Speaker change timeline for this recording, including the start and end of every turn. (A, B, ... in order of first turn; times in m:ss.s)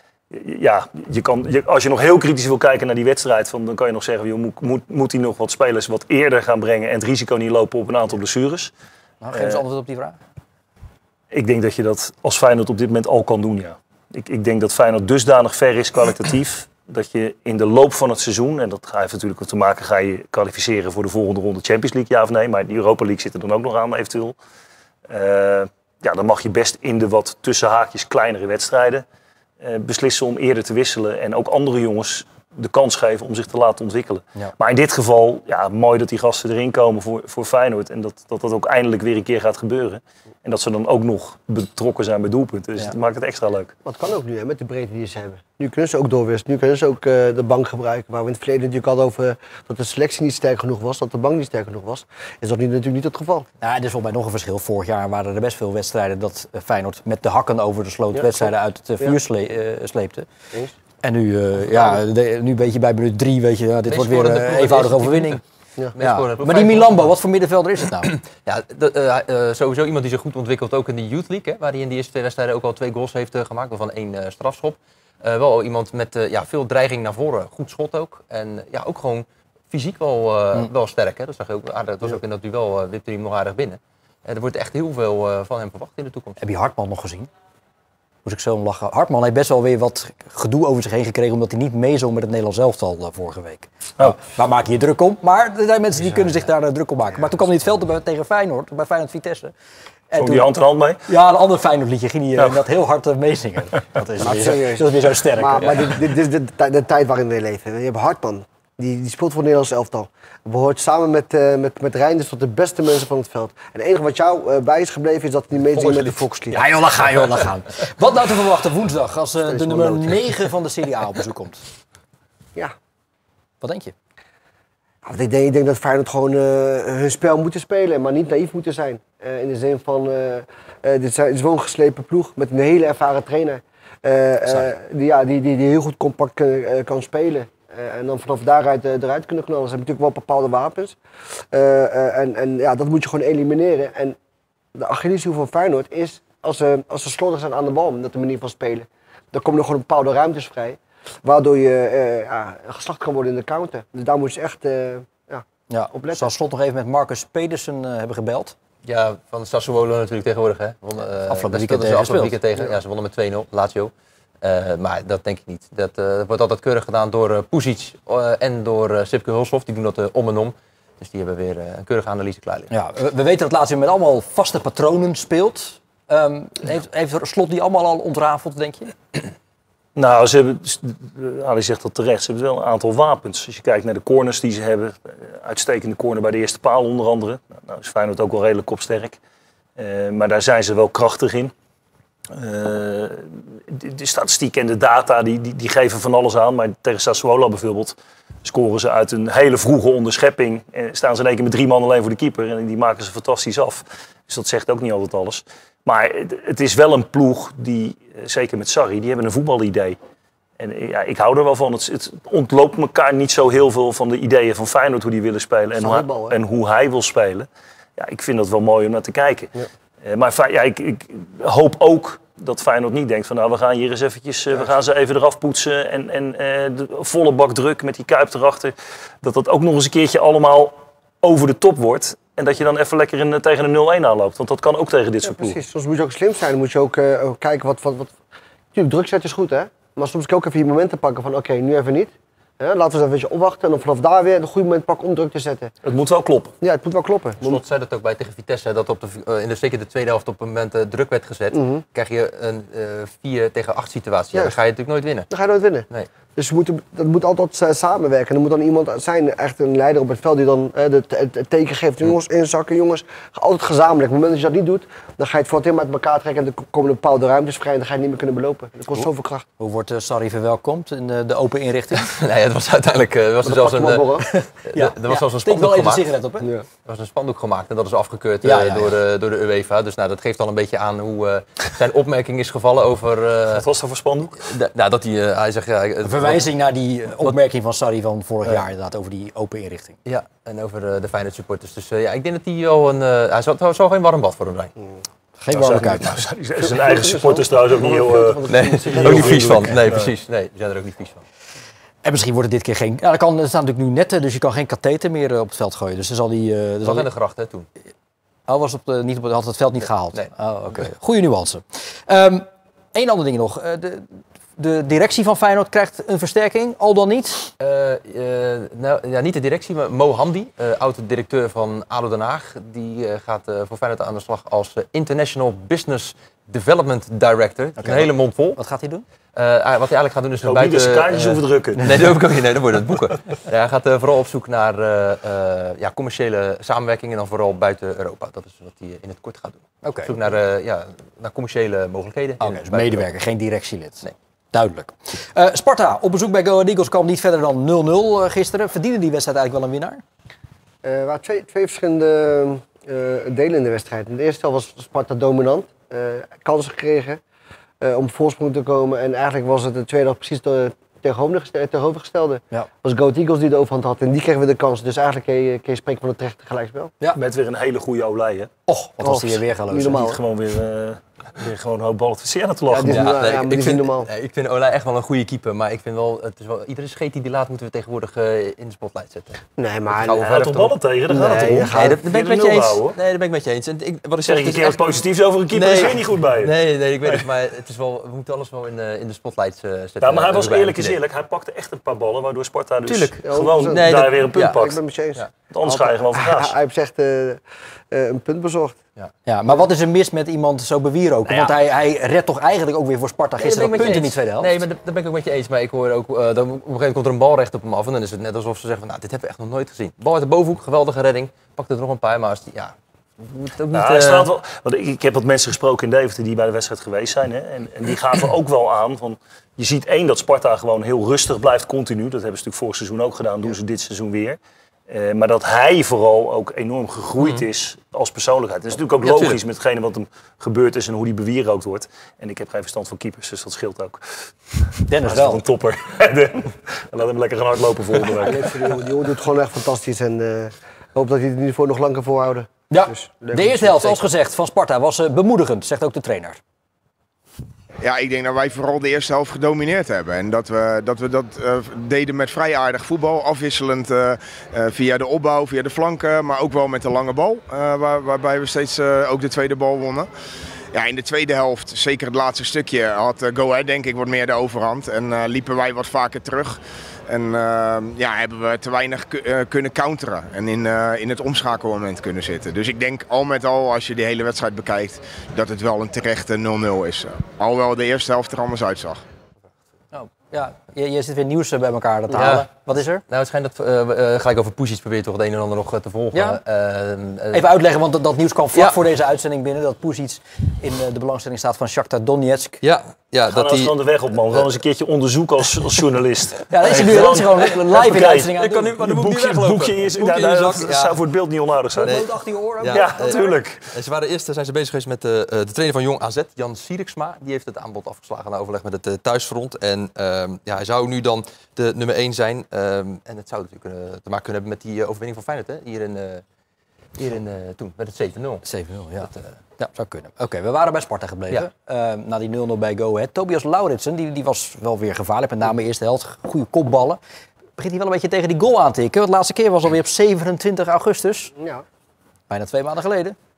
0:00.3-0:08.7 A
0:09.2-0:10.2 B
0:09.4-0:09.6 A
0:11.3-0:24.4 A
0:25.1-0:29.0 A
0:29.6-0:43.7 A
0:43.8-0:53.5 C
0:53.6-1:00.3 B
0:58.1-0:59.2 C
1:01.0-1:05.4 B
1:03.9-1:05.4 D
1:05.9-1:07.1 D
1:06.0-1:08.1 B
1:08.0-1:26.4 D
1:26.4-1:27.3 B
1:28.2-1:39.5 B
1:40.1-1:40.5 B
1:40.2-1:41.0 A
1:41.1-1:45.9 B
1:44.2-1:56.6 C
1:56.5-2:01.6 B
1:59.4-2:00.4 C
2:03.6-2:03.9 B
2:05.0-2:21.0 C
2:21.5-2:24.2 C
2:24.7-2:36.3 C
2:35.7-2:38.5 B
2:38.8-2:52.7 D
2:41.3-2:42.4 B
2:52.7-2:58.9 B
3:00.0-3:09.2 A
3:09.8-3:11.5 A
3:12.3-3:30.0 A
3:30.6-3:55.6 A
3:35.8-3:36.4 C
3:55.2-3:58.2 C
3:58.7-4:05.7 C
4:05.8-4:06.5 A
4:06.6-4:07.6 C
4:07.4-4:15.3 D
4:11.5-4:11.8 C
4:15.3-4:29.4 C
4:29.6-4:32.1 B
4:32.0-4:36.1 D
4:33.4-4:34.3 C
4:34.3-4:36.5 B
4:36.8-4:43.7 D
4:38.4-4:39.0 B
4:43.5-4:44.4 A
4:44.4-4:46.5 D
4:46.0-4:50.0 B
4:50.0-4:54.7 D
4:55.4-4:56.2 B
4:55.5-5:00.1 A
4:56.6-4:59.9 C
4:58.5-5:01.2 D
5:02.0-5:07.1 B
5:06.8-5:07.7 D
5:08.5-5:17.5 B
5:17.6-5:28.6 D
5:27.8-5:29.0 B
5:29.4-5:43.1 D
5:30.4-5:32.2 A
5:39.8-5:40.1 B
5:42.4-5:50.0 B
5:50.8-5:57.2 C
5:57.8-6:06.9 C
6:07.1-6:08.5 A
6:08.7-6:10.1 B
6:09.0-6:10.2 C
6:09.9-6:13.1 A
6:12.7-6:14.1 C
6:12.9-6:31.0 D
6:19.6-6:20.2 C
6:20.2-6:23.0 A
6:21.1-6:22.0 C
6:24.2-6:27.2 A
6:30.0-6:34.8 A
6:32.9-6:34.6 D
6:33.2-6:38.8 C
6:35.5-6:36.5 A
6:39.2-6:44.6 B
6:41.3-6:41.6 D
6:43.4-6:54.3 D
6:53.7-7:04.4 A
7:04.9-7:18.6 A
7:07.2-7:07.4 D
7:09.0-7:09.4 D
7:14.9-7:15.4 B
7:18.2-7:23.9 C
7:22.7-7:26.4 B
7:27.8-7:40.1 E
7:40.7-7:59.0 E
7:59.9-8:03.0 B
8:02.1-8:07.5 D
8:06.1-8:06.4 B
8:07.3-8:12.6 B
8:12.6-8:13.7 D
8:13.3-8:22.0 A
8:16.5-8:18.8 B
8:16.6-8:17.2 D
8:17.9-8:21.0 D
8:21.8-8:23.3 B
8:21.8-8:22.1 D
8:22.6-8:36.2 D
8:22.7-8:23.6 A
8:37.0-8:38.4 D
8:38.4-8:47.0 B
8:39.0-8:39.4 D
8:47.6-8:51.3 B
8:51.4-8:51.6 C
8:52.3-8:53.2 B